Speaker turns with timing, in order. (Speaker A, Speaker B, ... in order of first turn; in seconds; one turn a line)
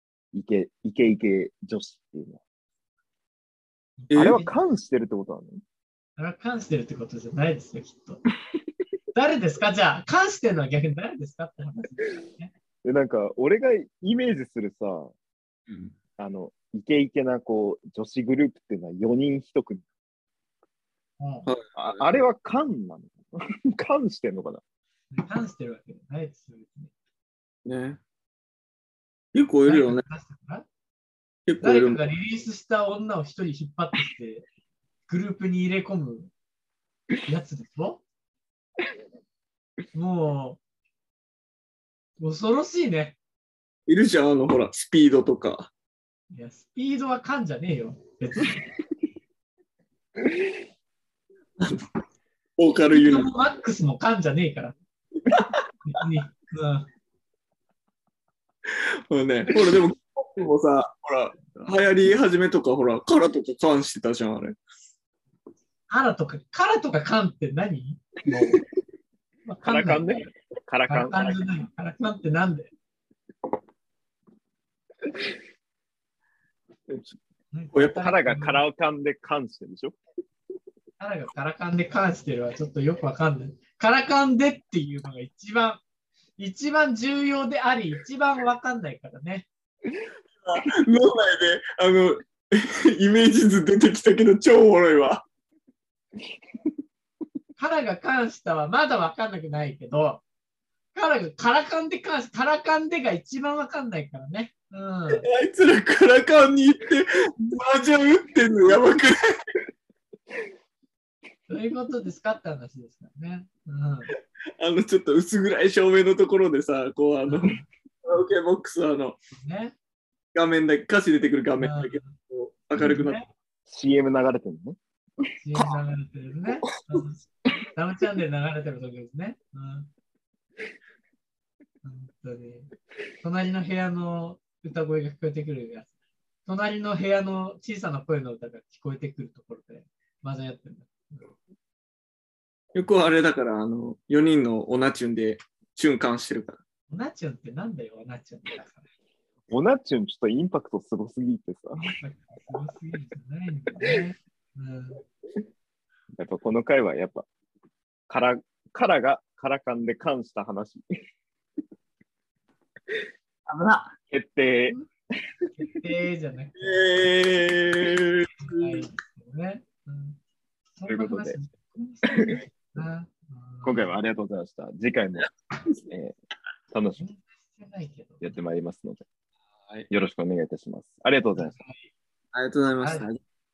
Speaker A: 0.3-2.4
Speaker B: 4.0-4.5
Speaker C: 4.1-4.4
Speaker A: 4.1-5.6
Speaker B: 6.2-8.2
Speaker B: 9.2-12.5
Speaker A: 12.8-15.1
Speaker A: 16.2-19.9
Speaker B: 21.2-21.5
Speaker C: 21.5-22.0
Speaker A: 21.8-24.6
Speaker B: 25.1-26.9
Speaker C: 27.7-28.0
Speaker C: 29.3-30.0
Speaker B: 29.7-30.7
Speaker C: 31.5-32.0
Speaker B: 31.6-34.5
Speaker B: 35.1-36.3
Speaker B: 37.2-38.0
Speaker B: 39.9-40.6
Speaker B: 42.2-43.2
Speaker C: 43.9-45.7
Speaker B: 46.3-48.6
Speaker C: 52.6-53.3
Speaker B: 52.9-54.8
Speaker C: 55.3-55.6
Speaker B: 55.9-56.9
Speaker C: 58.7-64.6
Speaker B: 65.9-68.6
Speaker B: 69.5-70.3
Speaker A: 69.7-71.5
Speaker B: 70.9-72.7
Speaker B: 77.5-78.6
Speaker A: 77.7-80.0
Speaker B: 81.0-85.8
Speaker B: 86.4-89.5
Speaker C: 90.4-95.2
Speaker B: 97.6-100.2
Speaker B: 100.9-105.3
Speaker C: 105.1-109.2
Speaker B: 111.5-114.1
Speaker C: 114.6-119.2
Speaker B: 117.3-117.7
Speaker B: 119.3-119.8
Speaker C: 120.3-123.2
Speaker B: 121.6-122.2
Speaker B: 122.8-123.3
Speaker A: 123.7-124.8
Speaker B: 125.4-129.9
Speaker B: 131.8-132.7
Speaker B: 133.2-135.9
Speaker B: 136.4-141.3
Speaker C: 142.8-146.6
Speaker B: 146.9-148.8
Speaker A: 149.5-151.8
Speaker B: 152.0-155.0
Speaker A: 156.2-157.3
Speaker A: 158.1-160.8
Speaker C: 163.5-163.9
Speaker A: 164.1-164.8
Speaker B: 165.5-166.9
Speaker C: 166.6-168.9
Speaker B: 168.4-170.2
Speaker B: 170.8-174.0
Speaker A: 170.9-171.4
Speaker A: 172.1-172.4
Speaker A: 173.6-175.3
Speaker C: 175.2-175.8
Speaker A: 175.9-176.2
Speaker A: 176.7-177.0
Speaker B: 177.0-178.4
Speaker A: 178.2-179.0
Speaker A: 179.9-181.6
Speaker B: 181.4-181.9
Speaker C: 182.3-183.2
Speaker B: 182.8-183.1